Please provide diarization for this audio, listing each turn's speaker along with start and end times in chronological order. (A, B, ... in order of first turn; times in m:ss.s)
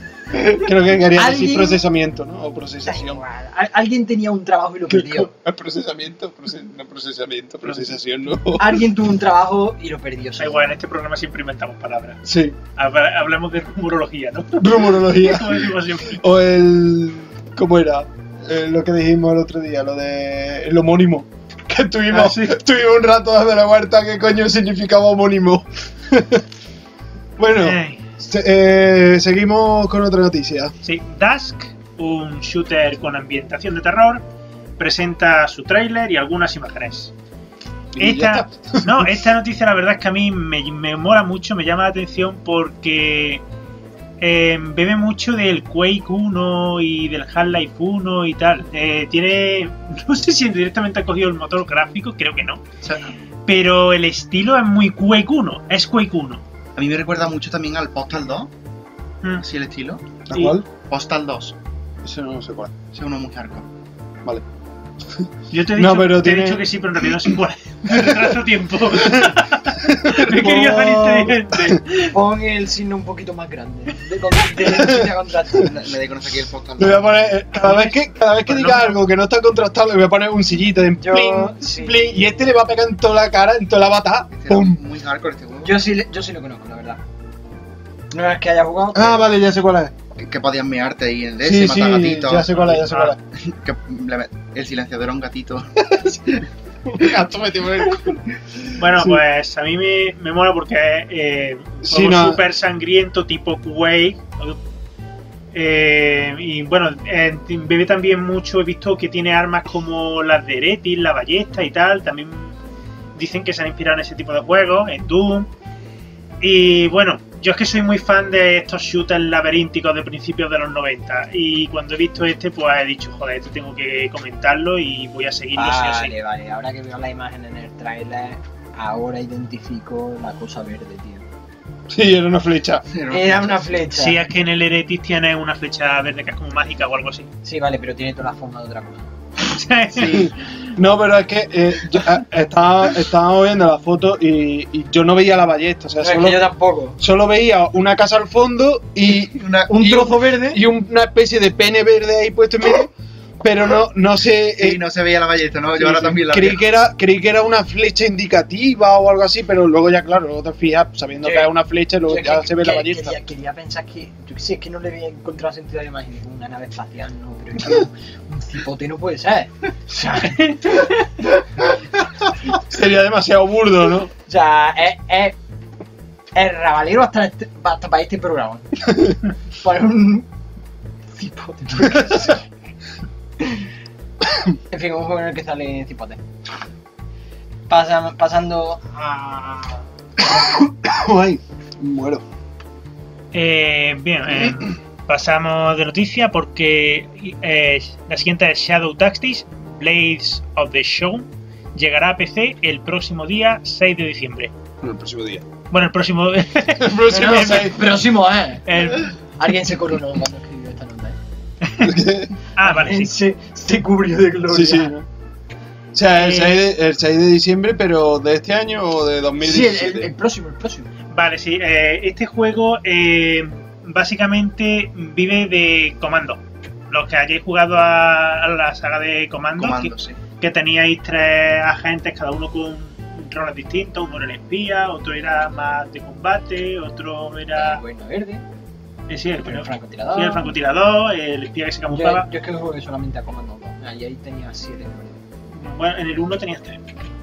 0:00.3-0:03.2 A
0:01.1-0:01.8 B
0:02.8-0:05.3 B
0:04.9-0:08.8 A
0:07.6-0:08.0 C
0:08.6-0:10.8 B
0:10.4-0:12.2 C
0:12.2-0:12.6 A
0:12.7-0:16.2 C
0:14.6-0:26.4 A
0:22.1-0:22.6 C
0:27.4-0:30.8 A
0:27.5-0:28.0 C
0:30.8-0:34.2 C
0:34.8-0:37.1 C
0:37.9-0:39.2 A
0:38.0-0:43.4 C
0:44.2-0:52.6 C
0:52.8-0:53.1 D
0:53.4-0:56.4 C
0:56.8-0:58.5 D
0:59.4-1:00.0 D
1:00.3-1:00.6 A
1:00.3-1:00.6 C
1:00.9-1:01.6 D
1:02.0-1:02.7 A
1:02.9-1:03.6 D
1:05.2-1:07.3 A
1:05.5-1:12.2 C
1:07.9-1:08.3 A
1:09.0-1:11.8 A
1:10.4-1:11.4 B
1:12.1-1:15.9 B
1:14.6-1:15.1 A
1:15.6-1:17.2 D
1:16.8-1:24.8 A
1:17.5-1:19.0 C
1:21.0-1:22.5 B
1:24.3-1:25.9 D
1:25.6-1:27.0 B
1:28.1-1:29.3 B
1:28.9-1:29.9 A
1:30.2-1:32.7 D
1:31.4-1:33.2 A
1:32.6-1:33.2 C
1:33.4-1:38.2 D
1:37.0-1:38.2 A
1:38.8-1:44.6 C
1:38.9-1:39.2 A
1:41.8-1:42.4 A
1:45.5-1:52.6 C
1:53.2-1:55.5 C
1:56.4-2:06.1 C
2:05.6-2:11.2 B
2:11.9-2:12.9 A
2:12.9-2:13.8 D
2:13.1-2:14.2 B
2:13.9-2:17.3 C
2:17.4-2:19.1 B
2:19.5-2:20.3 C
2:20.0-2:20.2 D
2:20.0-2:26.5 A
2:26.0-2:27.0 B
2:27.0-2:34.8 A
2:29.2-2:29.9 D
2:29.7-2:30.6 B
2:34.6-2:36.6 D
2:35.8-2:43.2 A
2:41.2-2:50.7 B
2:50.1-2:51.3 C
2:52.4-2:54.1 A
2:54.3-2:55.4 B
2:56.4-2:59.0 B
2:59.6-3:00.3 B
3:01.1-3:02.5 B
3:03.4-3:03.6 B
3:04.7-3:06.2 B
3:07.7-3:09.9 B
3:10.3-3:12.2 A
3:13.3-3:24.5 C
3:24.8-3:25.4 A
3:25.7-3:27.8 C
3:26.8-3:27.8 A
3:27.1-3:31.2 B
3:28.7-3:29.1 C
3:31.6-3:32.0 C
3:31.8-3:32.4 A
3:32.5-3:33.1 C
3:32.6-3:35.0 B
3:34.5-3:35.0 A
3:35.9-3:40.1 A
3:36.1-3:36.6 C
3:39.4-3:40.9 B
3:41.1-3:57.8 C
3:49.6-3:50.2 D
3:57.5-3:58.4 B
3:59.1-4:02.3 C
3:59.4-4:00.6 B
4:01.9-4:05.2 B
4:05.5-4:06.8 C